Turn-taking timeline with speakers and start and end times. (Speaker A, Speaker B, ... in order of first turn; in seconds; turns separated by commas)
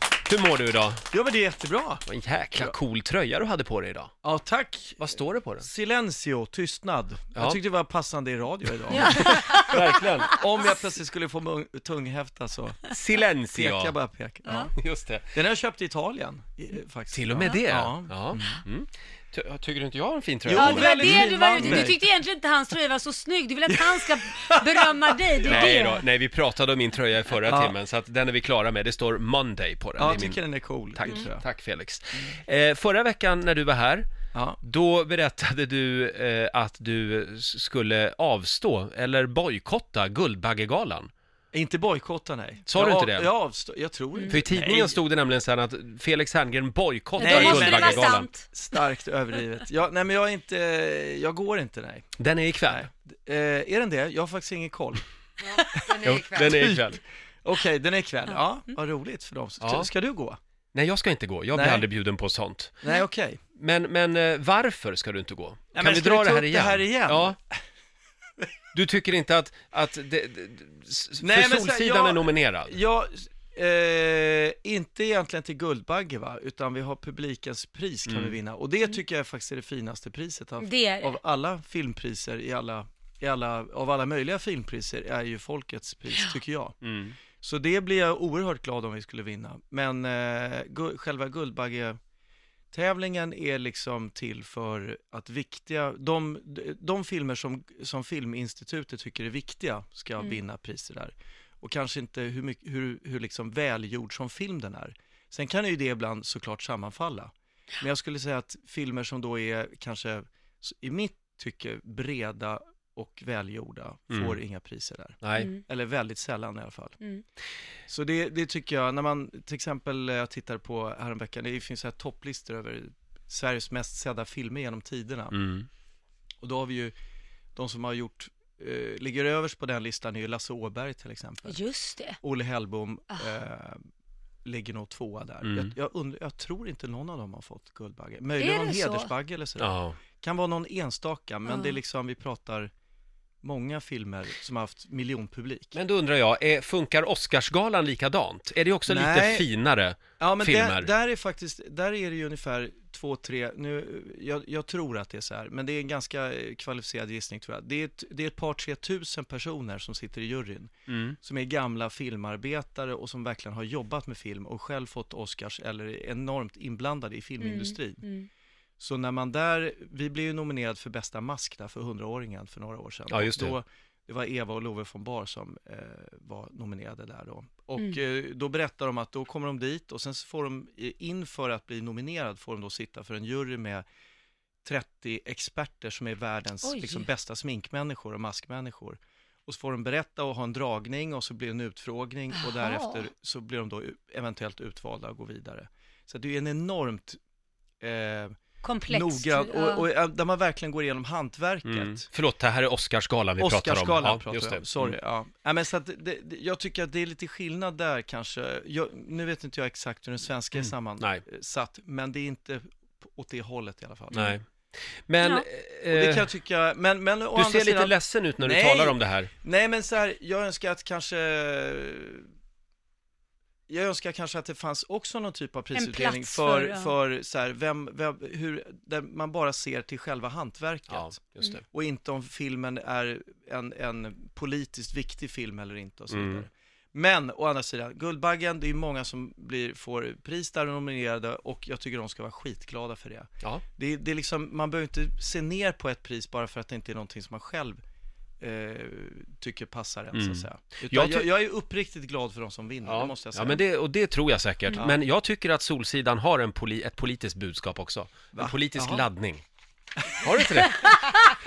Speaker A: 0.2-1.0, Speaker B: 1.1-2.0, Speaker A: 2.1-4.1, Speaker B: 4.2-5.0, Speaker A: 5.0-5.6, Speaker B: 5.6-12.9, Speaker C: 8.9-10.3, Speaker A: 9.1-10.3, Speaker A: 12.9-13.9, Speaker B: 13.5-14.7, Speaker C: 14.4-14.7, Speaker A: 14.5-15.3, Speaker B: 15.3-18.6, Speaker A: 17.1-21.8, Speaker B: 20.4-22.0, Speaker C: 20.5-26.0, Speaker B: 23.7-25.7, Speaker A: 25.5-30.4, Speaker B: 27.4-27.8, Speaker B: 30.0-31.4, Speaker A: 30.9-34.1, Speaker B: 34.3-34.6, Speaker A: 34.6-41.1, Speaker B: 41.5-45.0, Speaker A: 42.7-43.3, Speaker A: 44.3-48.3, Speaker C: 47.2-48.4, Speaker B: 47.2-52.1, Speaker A: 52.2-52.9, Speaker B: 52.7-55.0, Speaker B: 55.6-56.9, Speaker A: 55.9-57.0, Speaker B: 57.4-60.4, Speaker A: 59.6-59.9, Speaker A: 60.7-62.7, Speaker B: 61.5-61.9, Speaker B: 62.8-63.4, Speaker A: 63.5-67.3, Speaker B: 65.7-67.6, Speaker A: 68.7-72.7, Speaker B: 71.2-86.8, Speaker A: 78.1-78.3, Speaker C: 80.6-81.2, Speaker A: 86.8-87.2, Speaker B: 87.4-92.0, Speaker B: 92.7-117.0, Speaker A: 114.1-114.4, Speaker A: 115.2-115.5, Speaker C: 115.3-115.6, Speaker B: 117.9-125.3, Speaker A: 125.3-125.7, Speaker B: 126.4-126.9, Speaker B: 127.5-131.6, Speaker C: 131.5-132.2, Speaker B: 132.2-133.8, Speaker B: 134.4-142.7, Speaker A: 135.4-135.7, Speaker C: 138.4-139.1, Speaker A: 139.6-140.0, Speaker C: 141.5-141.8, Speaker B: 143.4-145.8, Speaker A: 145.7-150.9, Speaker B: 148.9-149.4, Speaker B: 150.2-168.0, Speaker A: 160.9-161.2, Speaker C: 167.4-168.3, Speaker B: 168.8-183.8, Speaker A: 173.1-173.6, Speaker B: 184.6-197.2, Speaker C: 186.6-187.1, Speaker C: 192.3-193.0, Speaker B: 197.8-198.3, Speaker C: 198.6-199.8, Speaker B: 198.9-202.1, Speaker A: 201.7-204.9, Speaker B: 203.4-214.3, Speaker A: 210.6-211.2, Speaker A: 214.1-214.4, Speaker A: 215.1-216.2, Speaker B: 215.9-222.3, Speaker A: 217.3-219.3, Speaker B: 223.7-247.8, Speaker C: 225.7-226.9, Speaker A: 230.9-231.6, Speaker A: 236.1-236.4, Speaker B: 248.4-253.6, Speaker A: 250.1-251.3, Speaker A: 252.8-259.4, Speaker B: 258.3-259.0, Speaker A: 260.1-261.1